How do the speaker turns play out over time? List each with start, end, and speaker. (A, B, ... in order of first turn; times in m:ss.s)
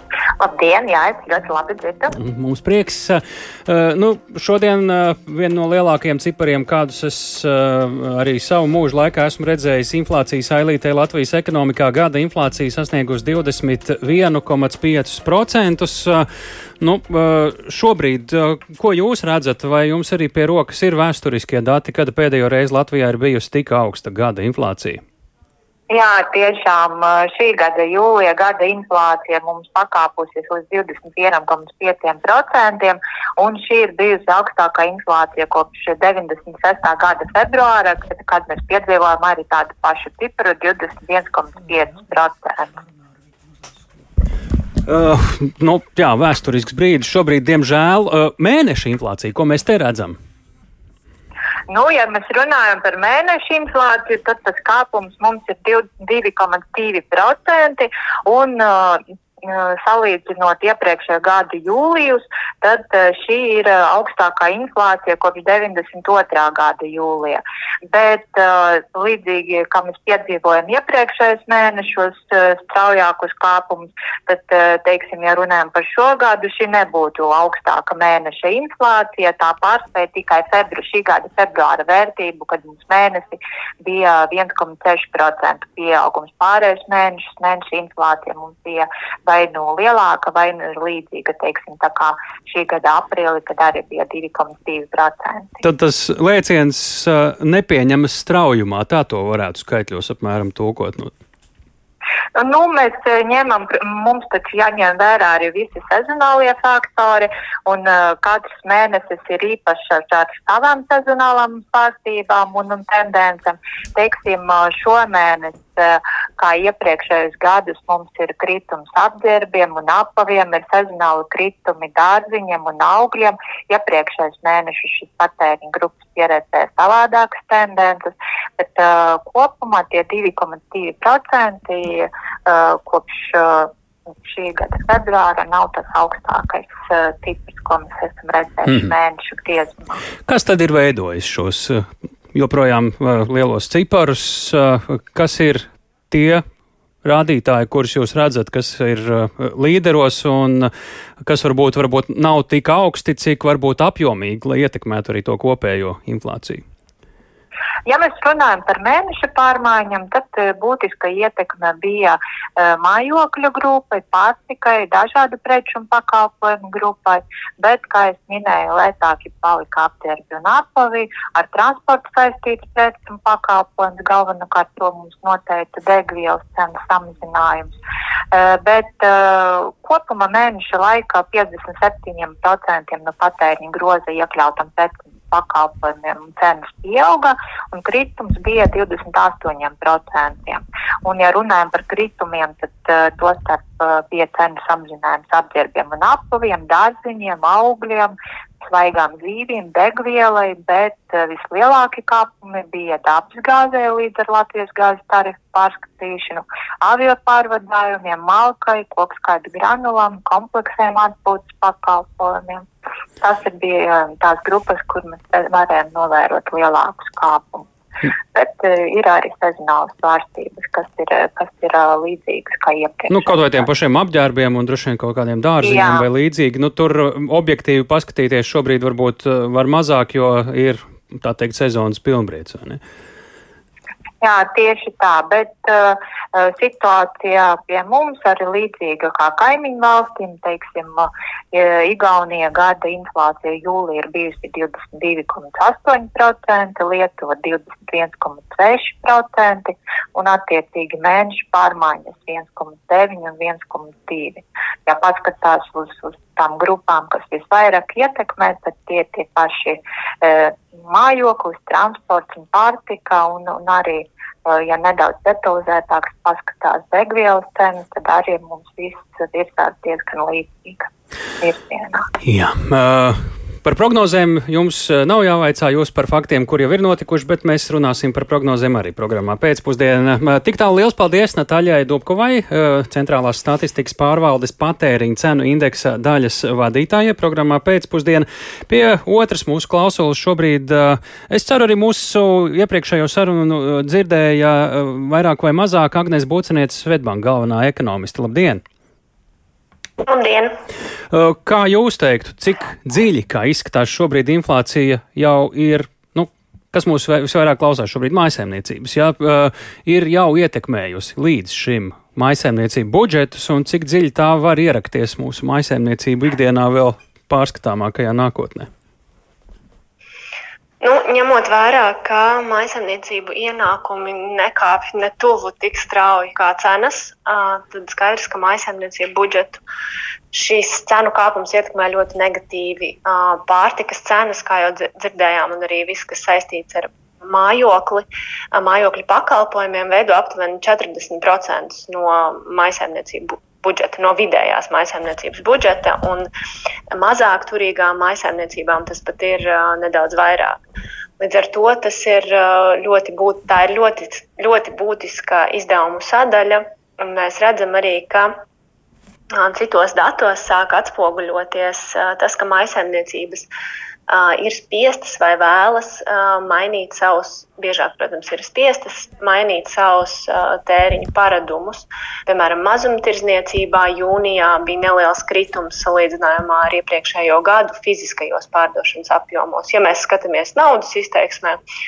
0:00.4-0:02.1 A
0:02.1-0:16.3 B
0:16.8-0:25.0 B
0:25.9-0:42.8 A
0:44.8-0:50.2 B
0:51.7-1:35.6 A
1:35.6-1:41.1 B
1:42.4-2:13.7 A
2:14.2-2:20.0 A
2:20.2-2:26.4 B
2:27.0-2:30.7 B
2:31.2-2:36.6 B
2:37.9-2:57.7 A
2:58.3-3:32.6 A
3:33.2-3:37.7 A
3:38.3-3:43.6 A
3:43.1-3:52.8 B
3:45.6-3:46.1 A
3:54.2-4:30.9 A
4:31.4-4:32.1 A
4:32.2-4:58.6 B
5:00.0-5:00.5 C
5:01.1-5:18.7 B
5:20.8-5:29.6 C
5:30.3-5:46.3 C
5:46.9-5:50.6 C
5:51.2-5:58.3 C
5:59.3-6:03.5 C
6:04.1-6:21.6 C